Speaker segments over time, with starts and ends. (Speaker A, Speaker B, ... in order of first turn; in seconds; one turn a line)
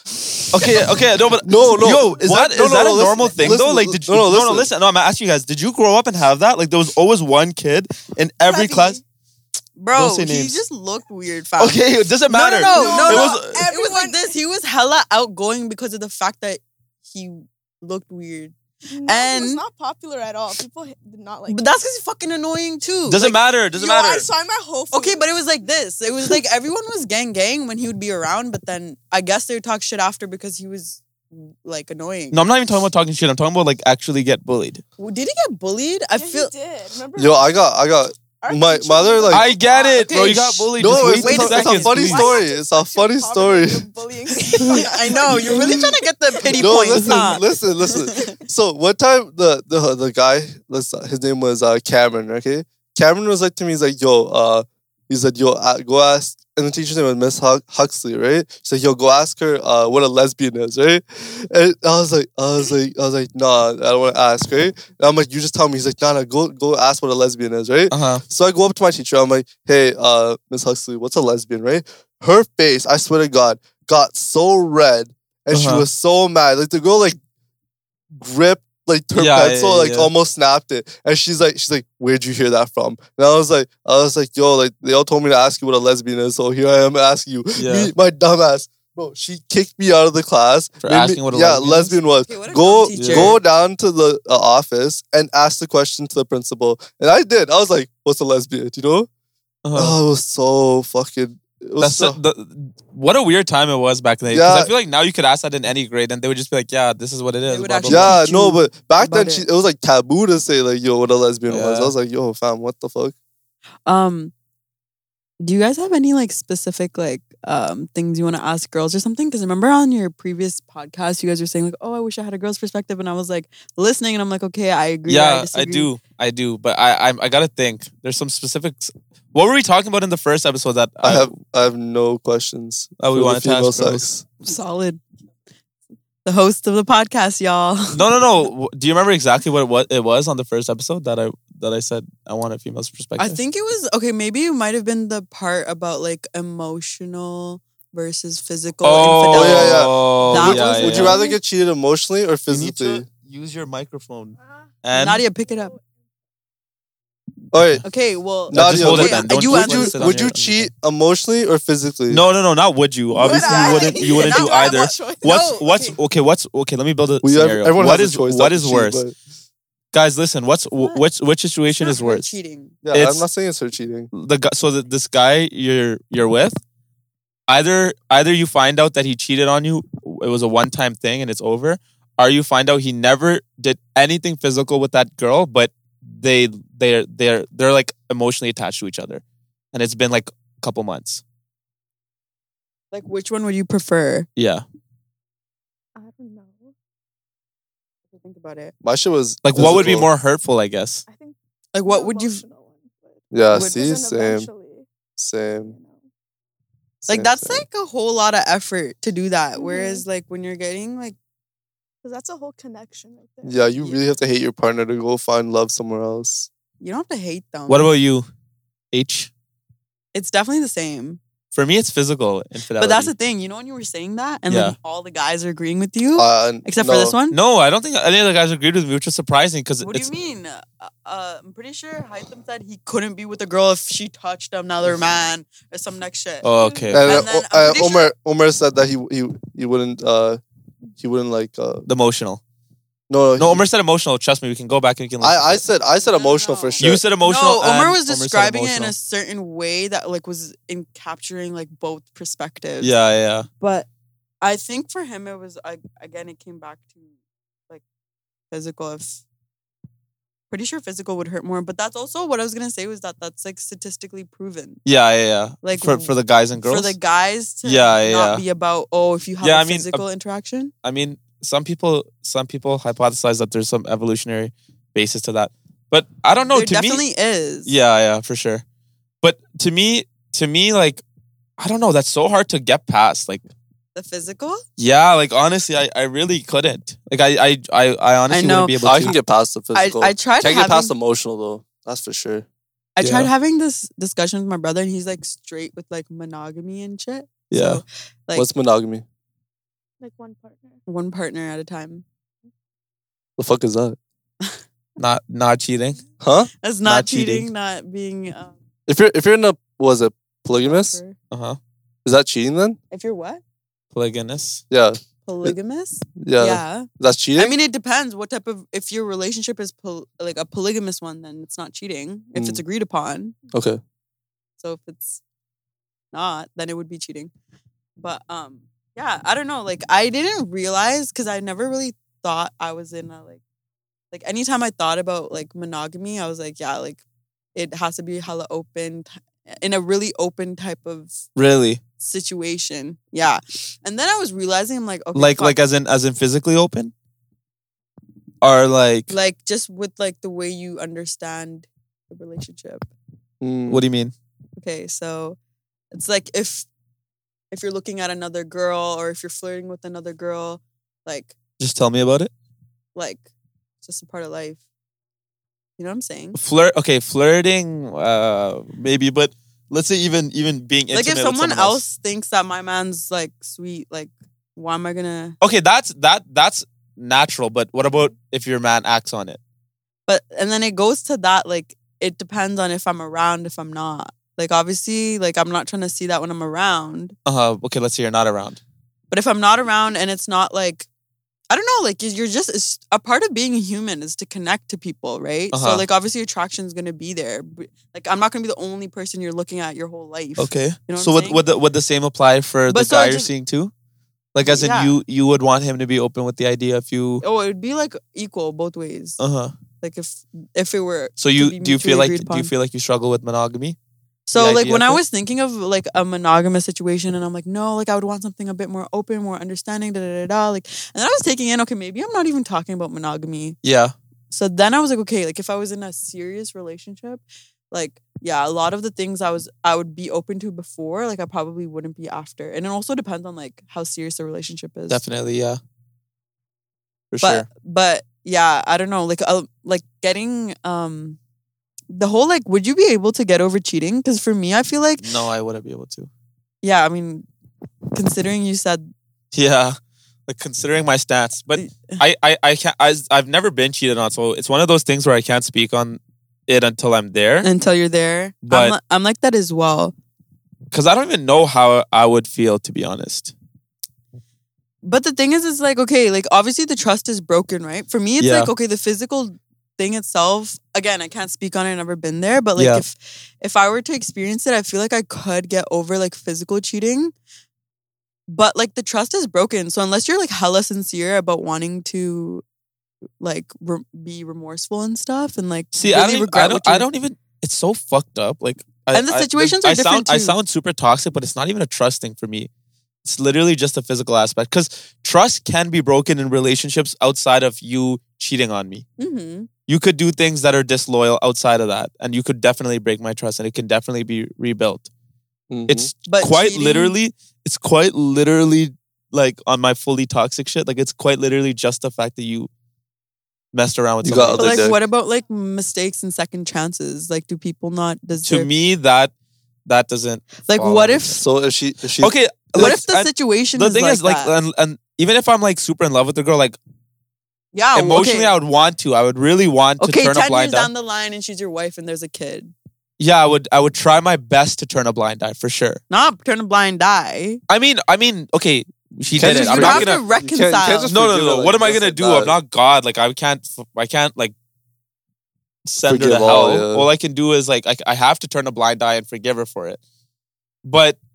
Speaker A: 0.5-9.0
Speaker B: 1.4-4.7
Speaker C: 8.4-9.0
Speaker C: 9.8-19.6
Speaker A: 9.9-10.6
Speaker A: 11.6-13.6
Speaker D: 12.6-14.3
Speaker D: 18.9-21.6
Speaker C: 21.5-23.4
Speaker A: 23.1-24.3
Speaker D: 23.7-25.3
Speaker C: 24.9-32.4
Speaker A: 32.3-34.8
Speaker C: 35.0-36.5
Speaker D: 36.1-40.3
Speaker B: 37.1-39.5
Speaker A: 39.3-42.2
Speaker C: 39.8-42.3
Speaker B: 40.8-43.9
Speaker D: 42.0-46.0
Speaker C: 44.5-48.4
Speaker B: 44.6-45.9
Speaker B: 46.5-77.2
Speaker A: 46.9-47.3
Speaker D: 47.9-48.2
Speaker A: 67.9-68.2
Speaker A: 75.5-75.9
Speaker B: 78.1-99.1
Speaker A: 79.1-80.1
Speaker A: 87.6-87.9
Speaker A: 90.8-92.0
Speaker C: 92.2-93.4
Speaker A: 92.9-93.4
Speaker A: 99.6-100.0
Speaker B: 99.7-102.2
Speaker A: 101.8-108.2
Speaker B: 104.3-104.7
Speaker C: 107.5-109.4
Speaker B: 107.9-113.1
Speaker A: 111.5-111.9
Speaker C: 113.9-114.3
Speaker C: 115.4-125.9
Speaker A: 125.1-131.3
Speaker B: 131.0-134.2
Speaker A: 133.0-134.0
Speaker C: 134.4-135.0
Speaker C: 136.2-138.0
Speaker A: 137.9-143.4
Speaker C: 143.2-151.3
Speaker A: 148.8-151.2
Speaker B: 149.3-153.1
Speaker A: 152.5-155.2
Speaker C: 154.9-155.7
Speaker B: 157.5-157.8
Speaker A: 157.5-157.8
Speaker C: 157.8-160.0
Speaker B: 158.5-162.2
Speaker A: 158.5-160.7
Speaker A: 162.1-169.0
Speaker D: 163.1-165.6
Speaker C: 163.2-166.0
Speaker B: 167.2-169.1
Speaker A: 169.9-172.3
Speaker C: 171.7-172.7
Speaker B: 172.8-174.1
Speaker A: 172.9-173.2
Speaker A: 174.1-176.6
Speaker A: 177.5-191.2
Speaker C: 192.9-194.3
Speaker A: 194.4-194.6
Speaker D: 195.9-196.7
Speaker C: 198.1-198.7
Speaker B: 198.8-200.1
Speaker A: 199.4-201.0
Speaker D: 201.1-204.9
Speaker C: 201.7-202.4
Speaker B: 203.3-204.5
Speaker C: 203.5-203.9
Speaker B: 205.2-205.7
Speaker D: 205.6-206.0
Speaker B: 207.0-207.7
Speaker C: 207.1-211.2
Speaker D: 209.6-210.1
Speaker D: 212.0-213.7
Speaker B: 213.4-216.5
Speaker C: 216.8-217.9
Speaker A: 217.7-218.3
Speaker A: 218.9-219.3
Speaker C: 220.1-221.2
Speaker A: 221.5-223.1
Speaker C: 222.8-227.4
Speaker A: 224.5-224.8
Speaker B: 226.2-227.1
Speaker A: 227.3-230.1
Speaker C: 229.8-236.4
Speaker A: 236.4-237.2
Speaker D: 236.5-236.9
Speaker B: 236.9-240.4
Speaker C: 237.0-238.1
Speaker B: 241.0-241.8
Speaker A: 241.9-242.4
Speaker B: 243.1-243.6
Speaker A: 243.4-245.6
Speaker B: 245.2-247.0
Speaker C: 246.0-252.9
Speaker A: 246.8-248.9
Speaker A: 252.8-253.5
Speaker C: 253.6-253.9
Speaker C: 254.4-257.0
Speaker C: 258.5-259.2
Speaker C: 260.5-264.8
Speaker A: 264.9-266.9
Speaker C: 265.6-266.1
Speaker C: 266.6-270.7
Speaker A: 267.6-268.4
Speaker A: 269.4-270.0
Speaker A: 270.8-277.0
Speaker C: 276.5-277.7
Speaker A: 277.6-278.6
Speaker A: 279.2-281.0
Speaker A: 281.6-283.4
Speaker C: 283.9-284.6
Speaker A: 284.8-289.1
Speaker C: 288.3-288.8
Speaker B: 288.8-292.4
Speaker C: 289.7-290.9
Speaker C: 292.9-298.5
Speaker A: 293.0-293.3
Speaker A: 297.5-297.8
Speaker B: 298.3-299.1
Speaker D: 300.0-300.8
Speaker C: 300.9-302.0
Speaker B: 303.4-304.0
Speaker A: 305.0-306.0
Speaker B: 306.2-306.5
Speaker C: 306.6-308.5
Speaker A: 306.9-307.5
Speaker B: 308.9-311.0
Speaker C: 310.6-311.1
Speaker A: 311.3-311.6
Speaker B: 312.1-312.8
Speaker C: 312.9-313.4
Speaker A: 313.9-314.6
Speaker B: 314.7-315.5
Speaker C: 315.2-323.4
Speaker B: 316.2-317.5
Speaker B: 322.3-322.6
Speaker B: 323.5-323.8
Speaker C: 324.6-325.2
Speaker C: 326.1-327.3
Speaker C: 328.0-333.4
Speaker C: 334.1-337.0
Speaker C: 337.6-341.2
Speaker A: 341.4-341.8
Speaker C: 342.0-345.6
Speaker A: 345.1-346.9
Speaker A: 348.4-349.1
Speaker C: 349.1-352.9
Speaker B: 353.4-353.8
Speaker A: 353.7-354.1
Speaker C: 354.6-355.4
Speaker C: 355.9-356.7
Speaker C: 357.5-361.3
Speaker A: 361.6-362.3
Speaker C: 362.9-363.2
Speaker C: 363.8-364.6
Speaker C: 365.8-366.4
Speaker A: 366.4-371.8
Speaker C: 370.9-375.4
Speaker A: 375.4-379.4
Speaker C: 380.1-387.1
Speaker A: 387.2-388.6
Speaker C: 389.1-390.9
Speaker C: 391.5-401.4
Speaker A: 395.5-395.8
Speaker A: 400.4-403.7
Speaker C: 402.7-403.3
Speaker A: 404.3-407.2
Speaker C: 404.4-405.0
Speaker C: 407.2-409.2
Speaker A: 409.2-409.5
Speaker C: 409.8-412.5
Speaker A: 411.2-413.8
Speaker C: 414.3-423.6
Speaker A: 414.3-415.0
Speaker A: 423.6-423.9
Speaker C: 424.3-435.0
Speaker A: 434.9-435.6
Speaker A: 437.1-437.5
Speaker C: 437.2-441.2
Speaker C: 441.9-445.1
Speaker A: 445.0-446.1
Speaker C: 446.6-447.3
Speaker C: 447.9-448.9
Speaker A: 449.3-457.5
Speaker C: 451.6-452.0
Speaker C: 457.4-459.9
Speaker A: 458.4-458.8
Speaker A: 460.7-463.3
Speaker C: 464.8-477.1
Speaker A: 468.2-468.5
Speaker A: 472.6-472.8
Speaker C: 478.3-482.4
Speaker C: 483.2-486.9
Speaker A: 485.7-492.5
Speaker C: 488.9-490.4
Speaker A: 493.1-498.9
Speaker C: 499.0-499.5
Speaker A: 499.7-504.9
Speaker B: 505.5-505.9
Speaker A: 505.7-512.5
Speaker C: 506.1-506.9
Speaker A: 513.5-514.7
Speaker B: 514.0-514.7
Speaker C: 514.4-518.5
Speaker A: 518.2-519.1
Speaker A: 519.6-521.1
Speaker C: 520.4-521.2
Speaker B: 521.2-522.1
Speaker A: 522.0-526.6
Speaker C: 522.5-524.3
Speaker C: 527.5-528.4
Speaker A: 527.7-530.7
Speaker C: 529.8-532.5
Speaker A: 533.0-535.8
Speaker C: 535.9-537.4
Speaker A: 537.5-540.0
Speaker B: 539.1-542.3
Speaker C: 539.2-540.9
Speaker A: 540.9-544.3
Speaker A: 545.7-549.8
Speaker B: 545.9-546.9
Speaker A: 550.6-551.0